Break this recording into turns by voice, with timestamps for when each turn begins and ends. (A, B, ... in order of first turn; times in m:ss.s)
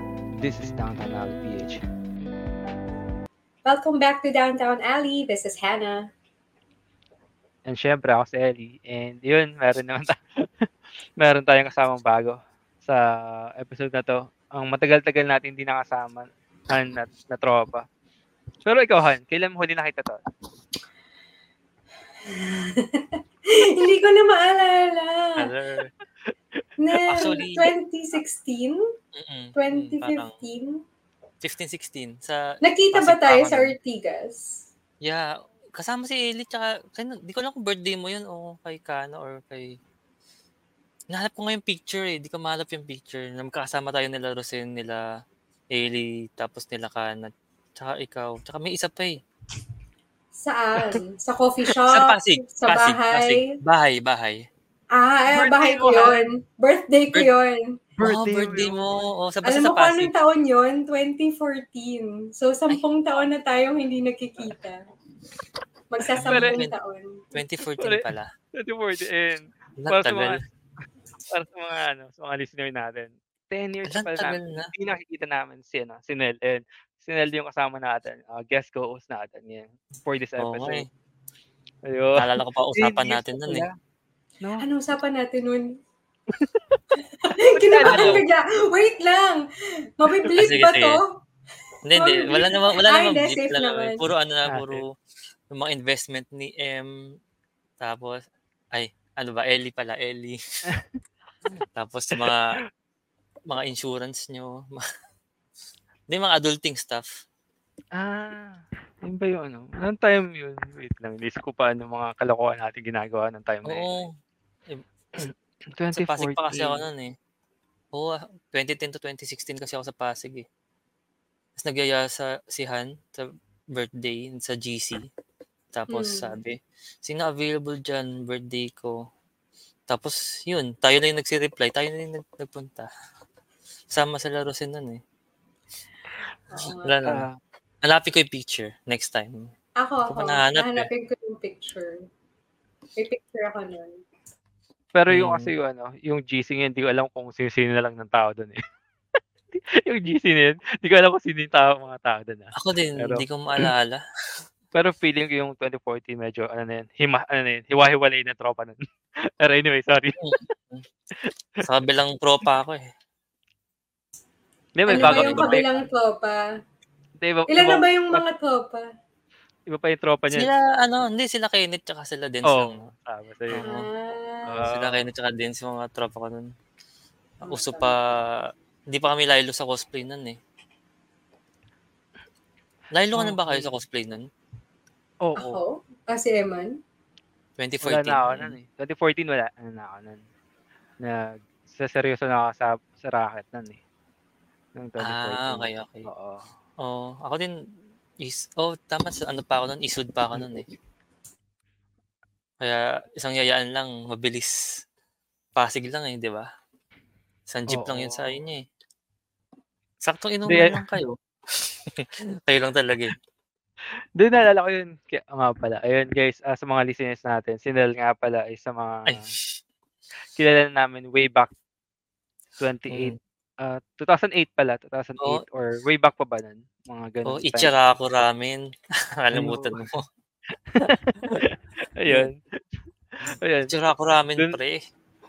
0:00.4-0:01.8 A
0:03.7-0:06.1 B
0:07.7-0:10.7 A
0:11.2-0:17.8 A
0:18.6-0:20.2 A
0:22.2-0:25.5 B
0:25.4-0:25.9 C
0:26.8-0:28.8 B
0:27.1-0:27.7 C
0:29.2-0:30.3 C
0:29.6-0:30.8 B
0:31.4-0:32.4 C
0:32.6-0:34.6 B
0:32.9-0:33.8 C
0:35.0-0:39.8 C
0:41.1-0:45.0 C
0:45.7-0:49.2 C
0:50.4-0:53.5 B
0:51.8-0:54.5 C
0:54.9-0:57.9 B
0:55.3-0:56.2 A
0:58.0-0:58.8 A
0:58.0-1:00.1 C
0:59.5-1:04.8 B
1:05.9-1:07.3 B
1:06.2-1:06.8 C
1:06.3-1:06.6 A
1:07.3-1:08.3 C
1:08.6-1:10.4 A
1:09.8-1:10.4 C
1:11.3-1:20.9 A
1:13.9-1:14.7 C
1:20.4-1:20.9 C
1:21.9-1:23.8 A
1:22.2-1:23.6 C
1:24.6-1:25.7 B
1:26.4-1:27.0 A
1:27.2-1:29.5 B
1:27.5-1:28.2 A
1:27.9-1:28.2 C
1:30.0-1:31.1 B
1:30.4-1:31.0 C
1:31.9-1:34.9 C
1:32.0-1:34.0 B
1:34.5-1:34.8 A
1:35.5-1:37.0 C
1:37.8-1:40.4 C
1:41.7-1:42.4 C
1:43.5-1:44.8 C
1:46.1-1:47.1 C
1:48.0-1:53.9 A
1:53.7-1:54.1 C
1:55.2-1:56.8 A
1:55.9-1:57.1 C
1:57.9-2:00.4 C
2:01.6-2:05.1 C
2:05.7-2:09.0 C
2:05.9-2:06.3 B
2:09.9-2:12.9 C
2:13.9-2:15.0 C
2:16.5-2:17.0 B
2:16.6-2:17.3 C
2:17.1-2:17.4 A
2:17.8-2:19.5 C
2:19.8-2:22.0 B
2:20.1-2:20.9 C
2:23.0-2:24.0 B
2:25.0-2:28.6 A
2:25.1-2:25.5 C
2:29.8-2:33.7 A
2:32.6-2:34.0 C
2:34.7-2:40.4 A
2:40.2-2:40.8 C
2:41.6-2:42.8 C
2:44.8-2:45.8 A
2:44.9-2:46.4 B
2:44.9-2:45.6 C
2:47.2-2:48.2 A
2:47.5-2:48.8 B
2:49.7-2:50.5 A
2:50.3-2:52.9 C
2:52.4-2:53.8 A
2:53.5-2:53.8 C
2:53.6-2:54.6 B
2:54.5-2:55.1 A
2:54.6-2:56.5 C
2:57.4-2:57.9 B
2:57.5-3:00.4 C
3:02.9-3:04.3 C
3:03.2-3:03.8 A
3:05.2-3:05.6 A
3:05.4-3:06.7 B
3:07.6-3:08.6 C
3:07.8-3:10.2 A
3:11.0-3:13.8 A
3:14.8-3:16.5 A
3:15.0-3:16.1 C
3:16.8-3:17.5 C
3:18.2-3:20.7 C
3:20.3-3:20.7 A
3:22.6-3:24.8 C
3:25.6-3:26.5 C
3:27.5-3:28.6 C
3:27.7-3:28.4 A
3:30.0-3:33.1 C
3:30.5-3:30.8 A
3:34.2-3:39.3 A
3:39.1-3:39.6 C
3:40.4-3:41.5 A
3:42.6-3:47.7 A
3:42.9-3:43.2 C
3:47.3-3:48.6 C
3:49.2-3:50.0 C
3:49.3-3:49.8 A
3:50.7-3:52.4 A
3:53.2-3:53.8 A
3:53.7-3:54.8 C